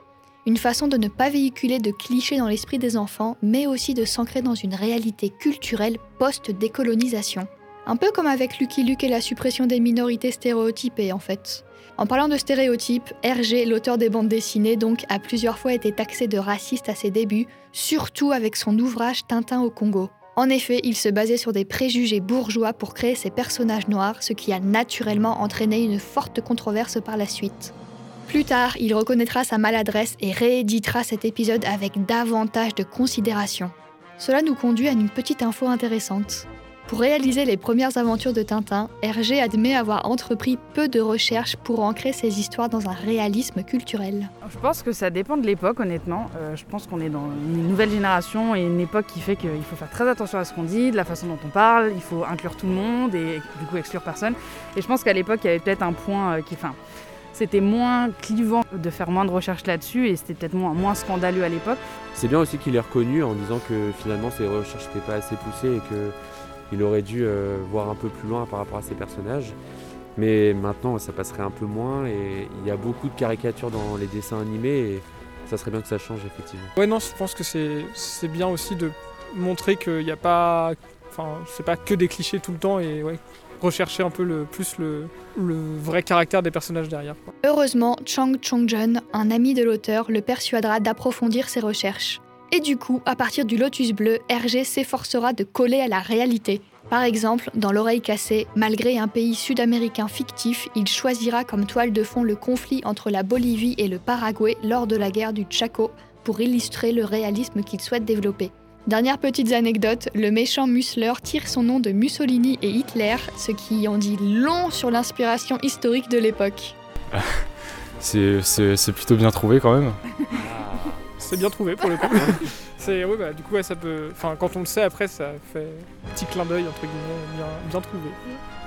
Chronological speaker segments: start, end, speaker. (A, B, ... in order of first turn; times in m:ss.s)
0:00.4-0:27.7 A
0:28.3-0:44.3 A
0:44.4-0:56.8 B
0:57.3-1:01.8 B
1:02.1-1:06.2 C
1:06.7-1:09.6 C
1:10.2-1:16.7 C
1:16.8-1:27.3 D
1:27.4-1:56.8 A
1:57.1-1:57.4 E
1:58.0-2:00.0 E
2:00.3-2:01.1 C
2:01.2-2:08.2 D